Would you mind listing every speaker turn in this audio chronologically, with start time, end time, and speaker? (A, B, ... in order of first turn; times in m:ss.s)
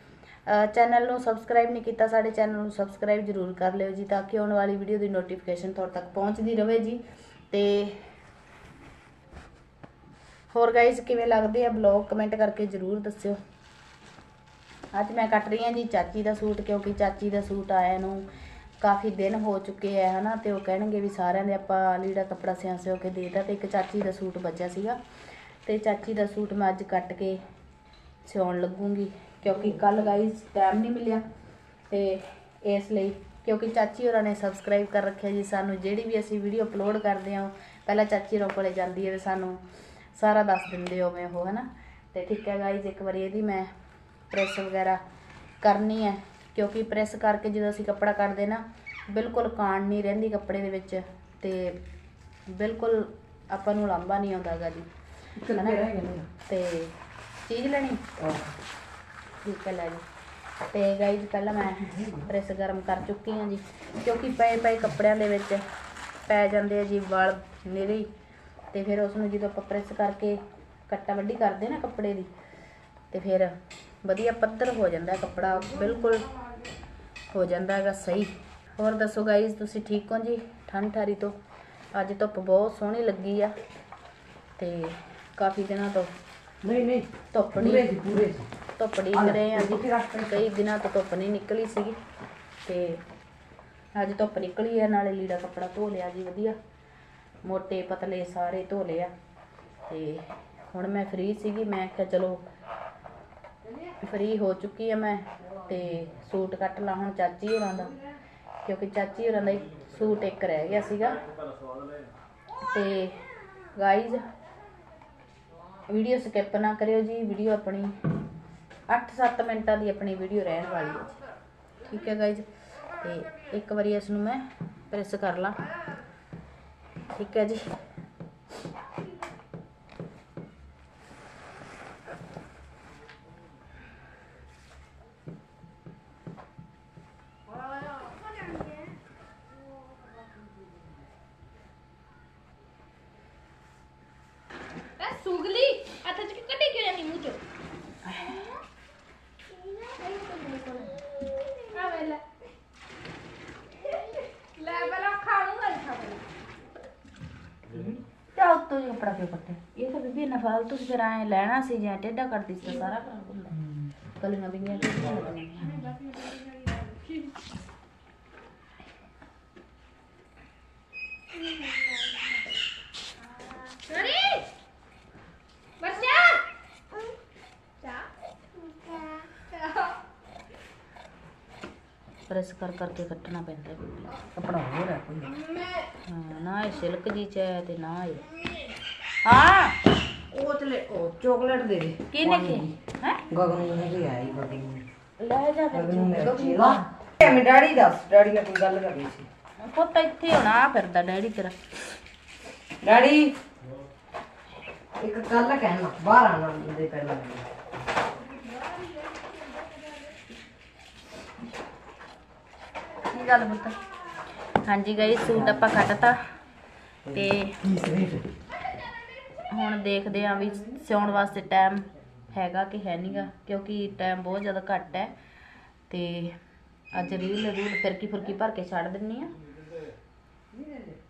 0:00.5-0:08.0 A
0:10.5-0:13.4 A
0:14.9-0:18.3 A
0:18.8-0:25.0 A
0:25.6-0:27.4 A
0:28.2-0:31.2 A
0:31.9-0:39.6 A
0:40.1-0:43.7 A
0:44.3-0:45.0 A
0:45.6-0:51.8 A
0:52.5-0:54.9 A
0:55.4-0:56.3 B
0:55.5-0:58.0 A
0:58.2-0:58.6 B
0:59.4-1:00.0 A
1:00.7-1:05.6 A
1:01.9-1:02.2 B
1:06.2-1:08.1 A
1:08.7-1:12.3 A
1:13.1-1:16.3 A
1:17.3-1:21.4 A
1:21.9-1:23.5 A
1:24.6-1:26.1 A
1:26.6-1:28.5 B
1:27.3-1:27.9 A
1:28.7-1:32.0 A
1:29.1-1:30.4 B
1:32.6-1:33.0 A
1:33.9-1:36.6 A
1:37.4-1:39.1 A
1:39.9-1:42.4 A
1:44.0-1:47.9 A
1:48.6-1:51.2 A
1:52.7-1:53.2 A
1:53.7-1:54.2 A
1:55.9-1:58.0 A
1:58.9-2:01.2 A
2:01.8-2:05.6 A
2:07.1-2:07.6 A
2:25.0-2:27.4 C
2:28.0-2:28.4 A
2:28.2-2:28.5 C
2:29.5-2:31.0 C
2:31.6-2:32.2 C
2:33.9-2:36.2 C
2:37.7-2:43.6 A
2:44.2-2:45.9 A
2:45.8-2:47.2 C
2:53.7-2:54.5 C
2:55.8-2:56.4 C
2:58.8-2:59.2 C
3:02.3-3:04.2 A
3:04.3-3:05.4 B
3:06.0-3:08.2 A
3:09.2-3:09.8 A
3:10.3-3:12.7 B
3:12.1-3:13.2 A
3:13.3-3:14.8 B
3:15.2-3:16.8 A
3:15.7-3:19.3 B
3:19.6-3:21.6 A
3:22.8-3:23.3 B
3:25.0-3:27.5 B
3:33.1-3:33.8 A
3:34.5-3:36.2 A
3:37.1-3:38.3 B
3:37.1-3:37.6 A
3:39.5-3:45.1 A
3:45.9-3:46.4 A
3:46.9-3:49.3 A
3:50.5-3:50.8 B